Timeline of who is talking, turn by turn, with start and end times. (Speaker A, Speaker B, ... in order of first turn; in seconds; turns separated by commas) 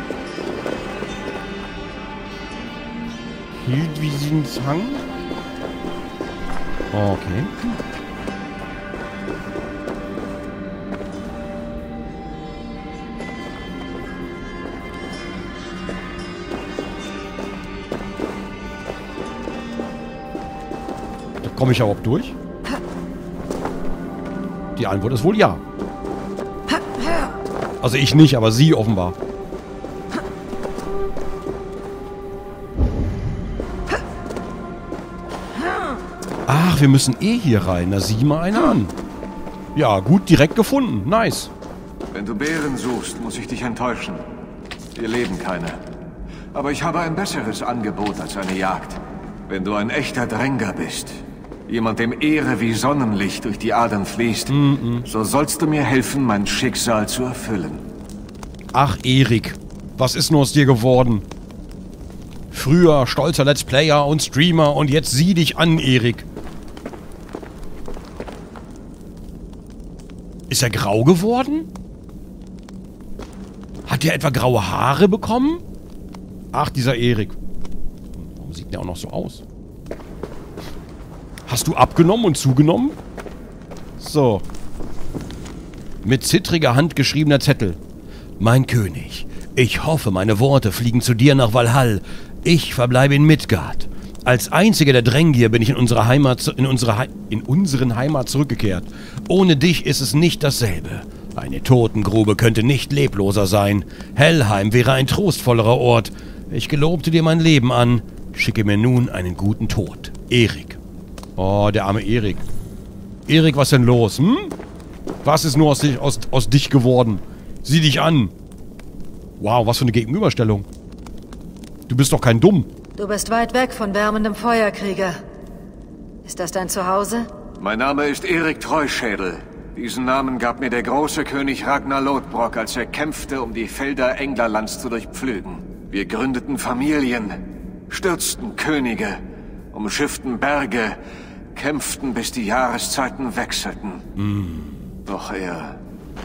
Speaker A: 3.6-5.0, Speaker A: 6.9-7.5, Speaker A: 21.4-22.4, Speaker A: 24.8-25.6, Speaker A: 27.8-29.2, Speaker A: 36.5-38.9, Speaker A: 39.8-41.5, Speaker B: 42.1-44.2, Speaker B: 45.0-45.8, Speaker B: 46.5-57.9, Speaker A: 54.5-55.1, Speaker A: 58.7-61.2, Speaker A: 62.5-66.3, Speaker A: 70.5-71.7, Speaker A: 73.9-75.6, Speaker A: 76.5-77.4, Speaker A: 78.2-79.4, Speaker A: 81.5-83.0, Speaker A: 84.0-84.4, Speaker A: 86.0-87.8, Speaker A: 88.4-110.8, Speaker A: 111.4-112.4, Speaker A: 113.3-114.5, Speaker A: 115.2-118.3, Speaker A: 119.4-120.7, Speaker A: 121.9-122.7, Speaker C: 123.0-125.2, Speaker C: 126.2-127.3, Speaker B: 127.6-139.2, Speaker B: 139.7-141.0, Speaker B: 141.5-144.0, Speaker A: 144.2-144.9, Speaker B: 145.1-145.8